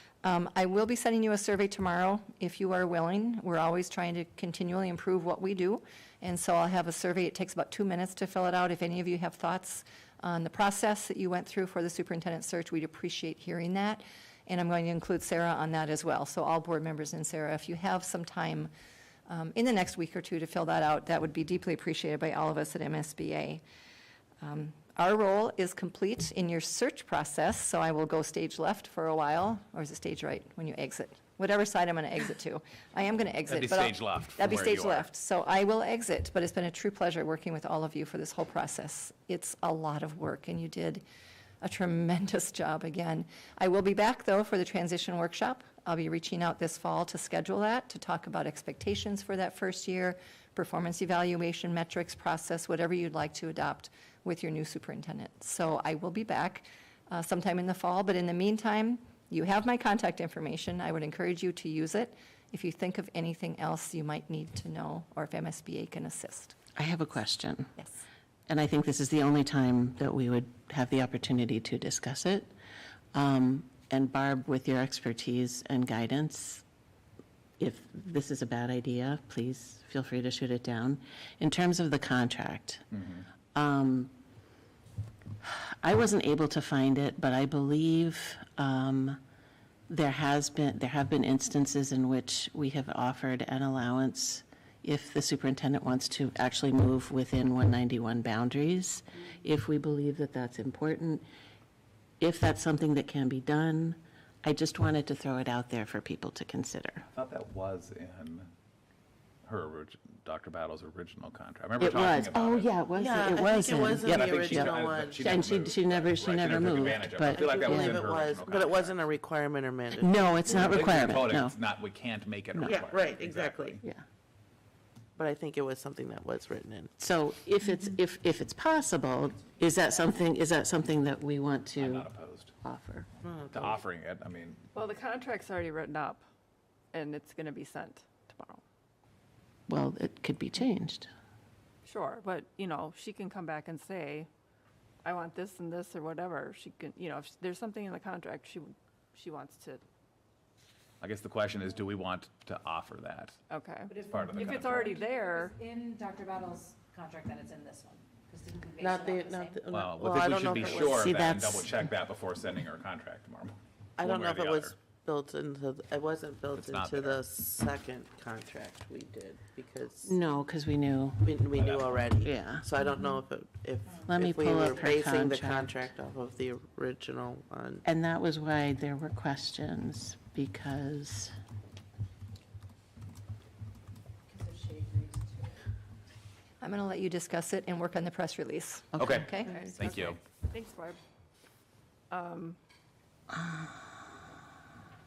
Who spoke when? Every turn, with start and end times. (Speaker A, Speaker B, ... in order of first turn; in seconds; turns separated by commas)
Speaker A: 0.2-18.7, Speaker A: 19.3-23.6, Speaker A: 24.4-41.0, Speaker B: 33.5-35.1, Speaker A: 41.6-66.6, Speaker C: 66.8-67.7, Speaker C: 68.5-72.5, Speaker C: 73.1-76.6, Speaker C: 77.6-82.9, Speaker B: 83.0-83.2, Speaker C: 83.5-84.1, Speaker C: 85.4-89.2, Speaker C: 89.9-101.2, Speaker C: 102.2-107.0, Speaker B: 107.2-108.5, Speaker B: 109.5-112.8, Speaker C: 111.8-118.3, Speaker D: 113.0-115.4, Speaker B: 114.0-119.0, Speaker D: 117.3-121.0, Speaker C: 120.0-121.6, Speaker B: 120.5-123.8, Speaker C: 122.5-122.9, Speaker D: 122.6-123.8, Speaker D: 125.2-126.9, Speaker C: 127.0-132.1, Speaker B: 131.8-132.5, Speaker C: 132.6-133.1, Speaker D: 133.2-133.8, Speaker B: 133.5-134.7, Speaker E: 134.8-136.2, Speaker E: 136.9-138.6, Speaker C: 139.7-141.1, Speaker E: 141.8-144.3, Speaker E: 145.0-149.8, Speaker B: 151.0-153.4, Speaker E: 153.5-155.6, Speaker F: 153.9-159.7, Speaker B: 154.1-154.9, Speaker D: 158.8-161.3, Speaker B: 159.7-164.8, Speaker C: 160.9-161.8, Speaker D: 164.0-170.2, Speaker B: 166.6-167.2, Speaker C: 170.0-171.3, Speaker D: 171.2-177.8, Speaker B: 171.6-172.1, Speaker C: 172.2-172.7, Speaker C: 174.1-175.9, Speaker C: 177.8-181.3, Speaker F: 184.3-185.6, Speaker A: 186.6-189.5, Speaker B: 189.0-190.2, Speaker E: 189.4-191.0, Speaker E: 192.1-192.6, Speaker C: 193.3-193.9